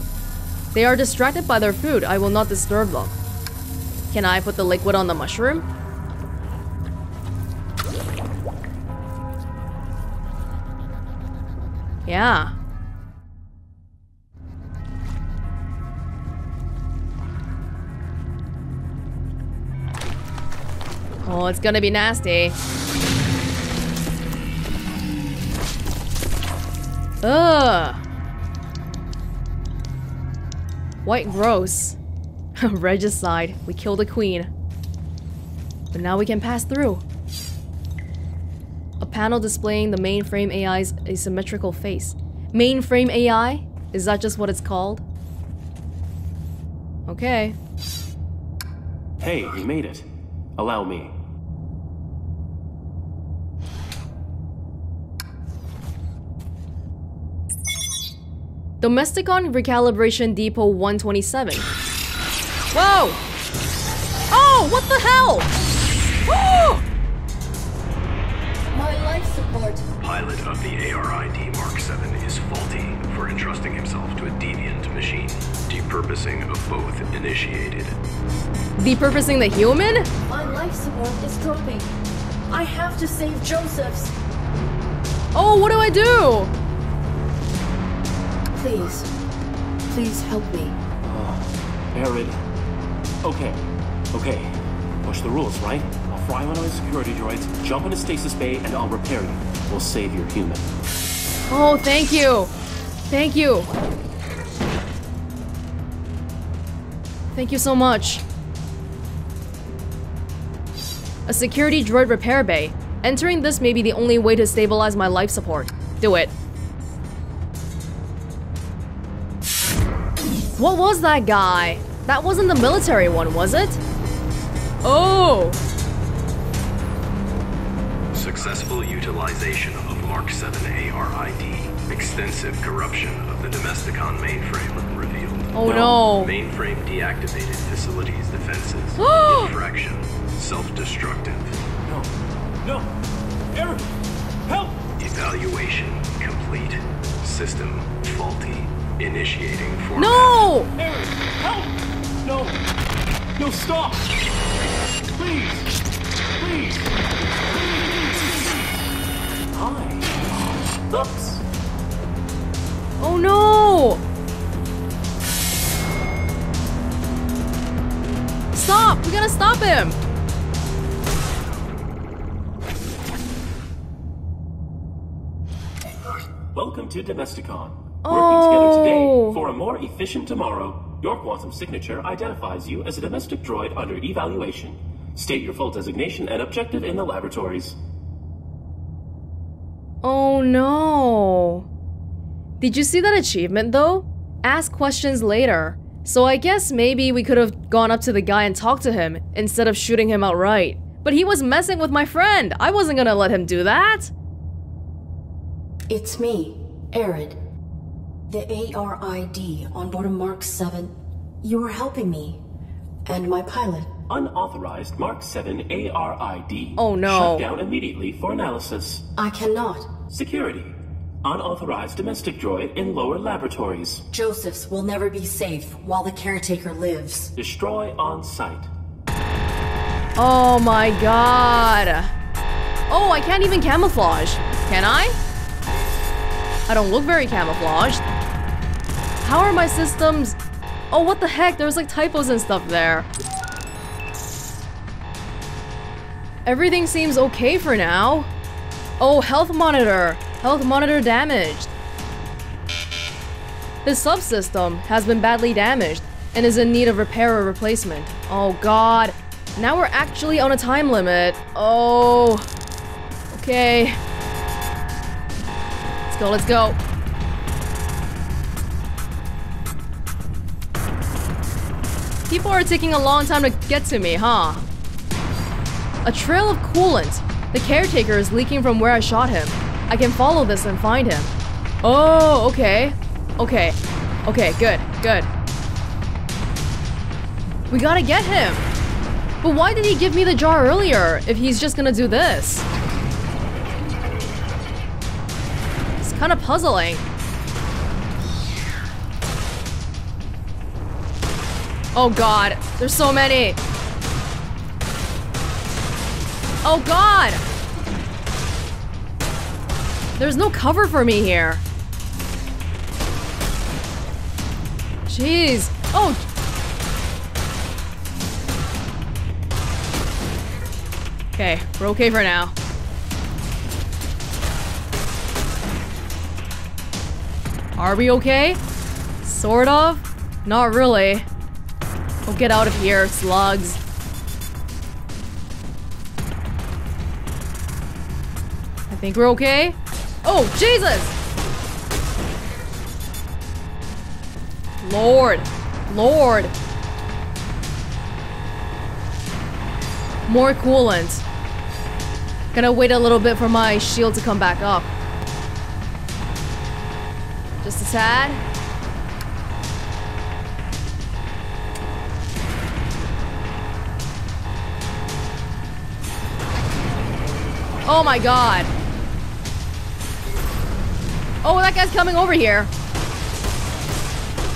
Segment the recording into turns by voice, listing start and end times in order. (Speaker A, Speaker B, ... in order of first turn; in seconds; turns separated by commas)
Speaker A: 0.7-3.1, Speaker A: 4.1-5.6, Speaker A: 12.1-12.5, Speaker A: 21.2-22.6, Speaker A: 27.2-28.0, Speaker A: 31.0-32.0, Speaker A: 32.6-34.5, Speaker A: 35.9-37.0, Speaker A: 39.0-45.0, Speaker A: 47.1-47.5, Speaker B: 49.2-51.1, Speaker A: 58.8-61.7, Speaker A: 62.7-63.2, Speaker A: 64.3-65.5, Speaker A: 66.2-66.8, Speaker C: 68.7-69.9, Speaker D: 70.0-78.0, Speaker A: 78.8-80.1, Speaker C: 80.3-81.9, Speaker C: 82.5-84.1, Speaker A: 85.3-86.5, Speaker C: 88.5-89.1, Speaker C: 89.9-90.8, Speaker B: 91.0-92.4, Speaker B: 93.2-100.6, Speaker A: 101.5-102.5, Speaker A: 103.1-103.7, Speaker A: 107.3-108.2, Speaker A: 111.3-116.3, Speaker A: 120.6-123.8, Speaker A: 124.8-125.6, Speaker D: 128.1-141.6, Speaker A: 135.5-136.3, Speaker B: 135.7-135.9, Speaker A: 139.0-139.5, Speaker B: 141.8-142.1, Speaker B: 142.6-142.9, Speaker B: 143.5-143.9, Speaker B: 144.4-144.8, Speaker D: 145.0-150.4, Speaker A: 149.9-150.7, Speaker B: 150.8-152.6, Speaker B: 153.4-154.1, Speaker B: 155.1-155.7, Speaker B: 156.4-156.9, Speaker B: 157.6-158.5, Speaker B: 159.5-161.4, Speaker A: 163.0-164.0, Speaker A: 168.5-170.0, Speaker B: 176.5-187.8, Speaker A: 178.0-179.4, Speaker A: 190.0-191.7, Speaker A: 192.6-204.1, Speaker C: 205.9-207.4, Speaker C: 208.3-212.4, Speaker C: 213.0-213.9, Speaker B: 214.1-219.0, Speaker A: 216.8-217.4, Speaker C: 219.2-219.9, Speaker B: 220.1-224.0, Speaker C: 224.1-227.3, Speaker B: 227.4-228.7, Speaker A: 230.2-232.1, Speaker A: 232.9-235.2, Speaker A: 236.7-238.0, Speaker A: 239.2-240.4, Speaker A: 240.9-243.1, Speaker A: 246.4-248.3, Speaker A: 249.0-251.7, Speaker A: 253.8-262.5, Speaker A: 263.3-264.0, Speaker A: 266.1-266.8, Speaker A: 272.3-274.6, Speaker A: 276.0-285.3, Speaker A: 287.7-288.7, Speaker A: 289.4-292.6, Speaker A: 296.0-297.0, Speaker A: 301.9-303.6, Speaker A: 306.6-307.4, Speaker A: 310.2-311.6, Speaker A: 315.1-316.2, Speaker A: 321.4-322.5, Speaker A: 327.8-328.6, Speaker A: 329.2-331.3, Speaker A: 332.3-333.8, Speaker A: 338.9-341.1, Speaker A: 344.8-346.5, Speaker A: 350.3-351.2, Speaker A: 352.5-354.9, Speaker A: 357.6-358.4, Speaker A: 367.9-368.7, Speaker A: 371.4-372.7